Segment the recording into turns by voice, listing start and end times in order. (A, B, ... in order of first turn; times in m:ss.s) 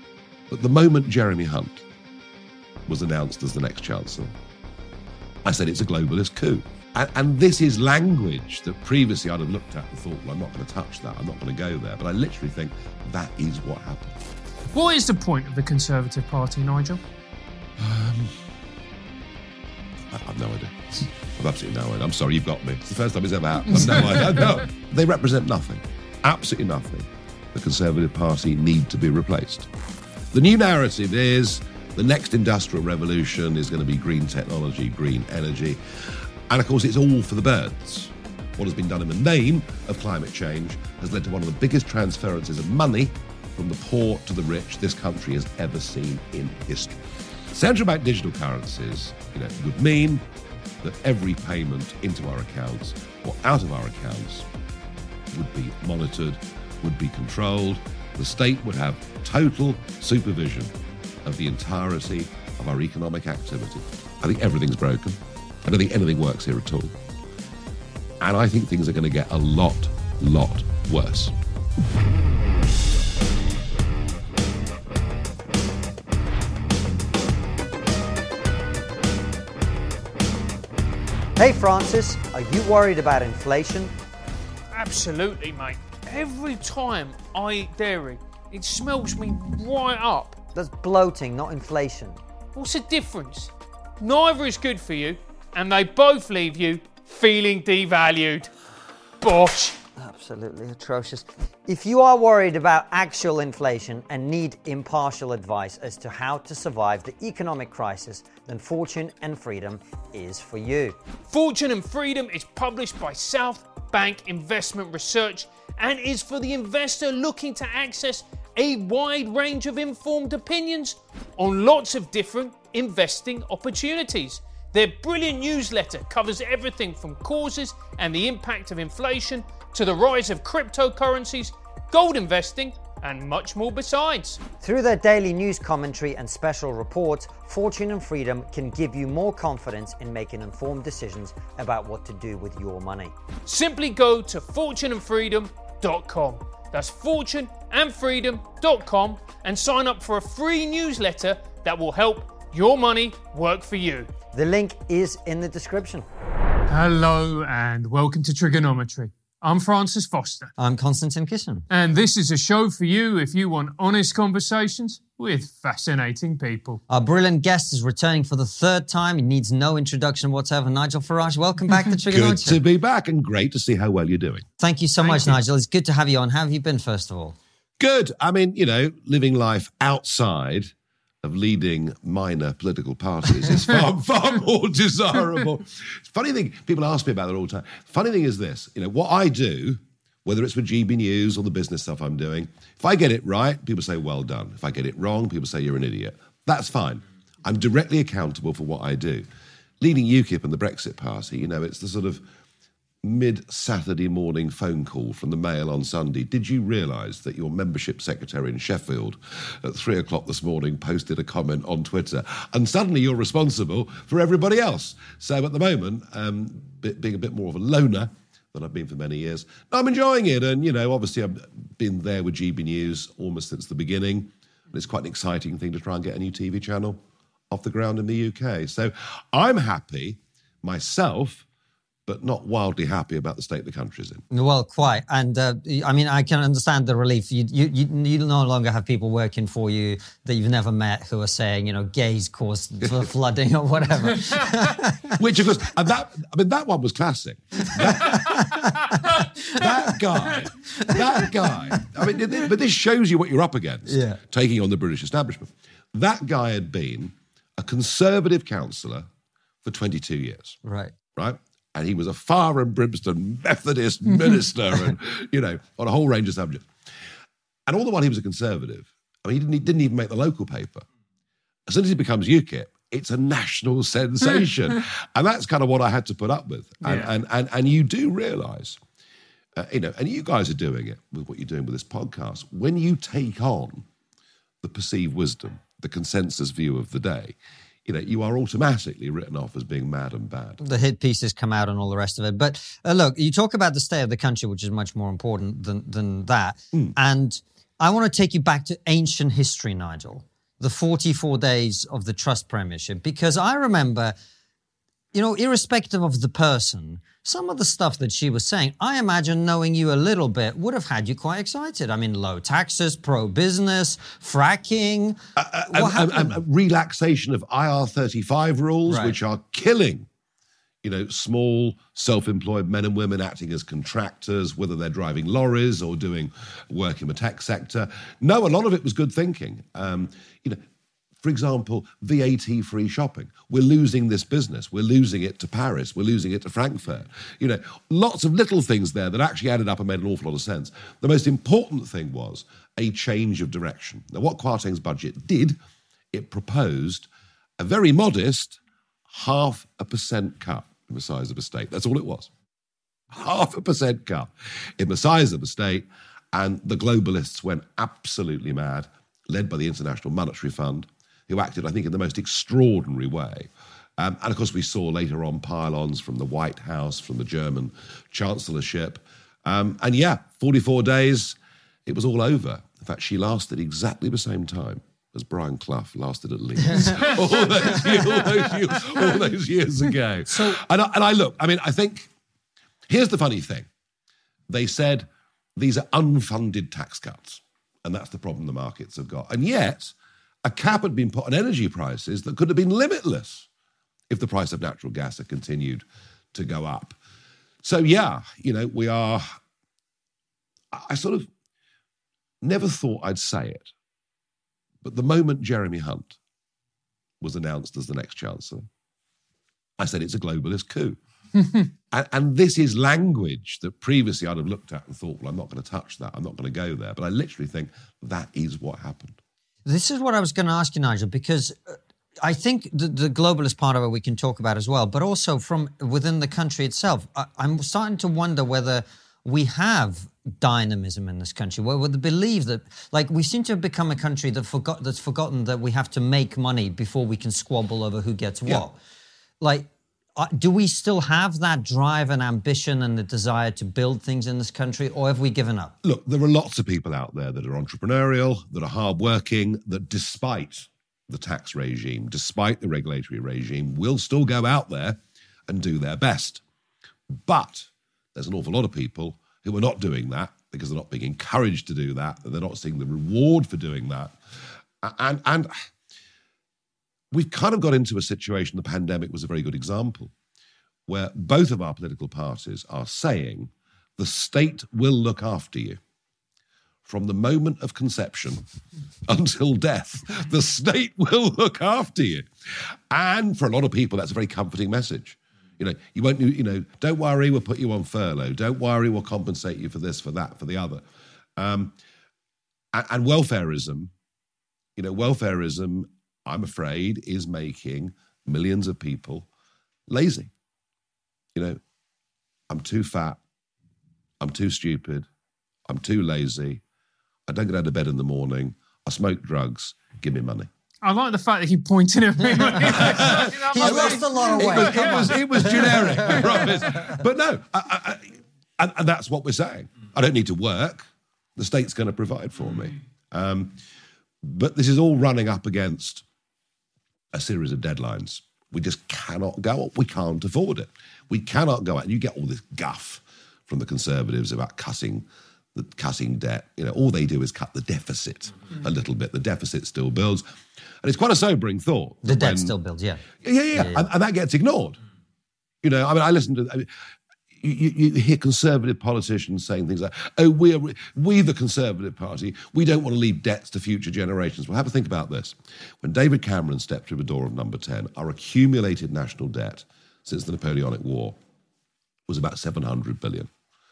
0:00.5-0:01.8 A
0:02.9-0:04.3 A
0:05.4-0:14.2 A
0:14.7-0:17.0 B
0:17.8-0:18.4 A
0:20.1-0:29.7 A
0:30.3-0:50.2 A
0:50.8-0:54.5 A
0:55.3-1:00.7 A
1:01.2-1:07.0 A
1:08.2-1:11.3 A
1:21.4-1:23.9 C
1:24.7-1:30.4 B
1:30.5-1:32.2 C
1:32.5-1:38.5 B
1:39.2-1:39.8 B
1:40.0-1:51.0 C
1:51.3-2:14.4 B
2:14.6-2:23.1 C
2:23.4-2:34.1 B
2:34.3-2:36.0 C
2:36.7-2:40.5 B
2:40.6-2:41.6 C
2:41.7-2:46.8 B
2:46.9-2:52.6 C
2:52.1-2:54.4 A
2:54.6-2:57.4 C
2:55.0-2:55.4 B
2:57.8-3:19.2 A
3:19.8-3:22.2 A
3:23.0-3:51.4 A
3:52.0-3:54.2 A
3:54.3-4:05.2 C
4:05.2-4:19.1 A
4:07.7-4:09.9 C
4:10.7-4:12.0 C
4:13.9-4:14.2 C
4:19.6-4:20.6 A
4:20.6-4:20.9 C
4:21.2-4:26.7 A
4:27.7-4:30.8 A
4:31.7-4:38.8 A
4:36.8-4:37.1 B
4:39.6-4:43.8 A
4:44.6-4:50.6 A
4:50.6-5:04.1 C
5:05.1-5:16.3 C
5:15.4-5:20.1 A
5:18.9-5:19.2 C
5:20.8-5:30.6 A
5:31.2-5:45.6 A
5:46.1-5:52.3 A
5:53.1-6:22.1 A
6:16.6-6:18.2 C
6:22.9-6:23.7 A
6:24.5-6:29.9 A
6:30.4-6:33.5 A
6:34.1-6:37.0 A
6:37.6-6:39.4 A
6:40.7-6:41.3 A
6:42.4-6:43.7 A
6:44.8-6:46.2 A
6:47.2-6:48.7 A
6:49.8-6:51.0 A
6:51.4-6:51.7 B
6:51.9-6:59.2 A
6:59.6-7:18.8 C
7:19.4-7:25.7 C
7:25.8-7:36.4 A
7:37.2-7:44.2 A
7:44.8-7:45.5 A
7:47.1-7:50.1 A
7:50.9-7:55.8 A
7:56.8-7:58.4 A
7:59.1-8:10.8 A
8:11.4-8:11.7 A
8:12.7-8:13.9 A
8:14.8-8:19.3 A
8:19.9-8:20.3 A
8:22.5-8:23.2 A
8:24.2-8:25.1 A
8:25.7-8:26.6 A
8:27.3-8:30.5 A
8:30.8-8:36.1 B
8:32.6-8:37.0 C
8:32.7-8:43.6 A
8:44.2-8:46.0 A
8:47.1-9:00.2 A
9:00.8-9:02.5 A
9:02.0-9:03.9 C
9:03.2-9:04.8 A
9:05.6-9:06.9 A
9:07.4-9:21.2 A
9:22.1-9:23.3 A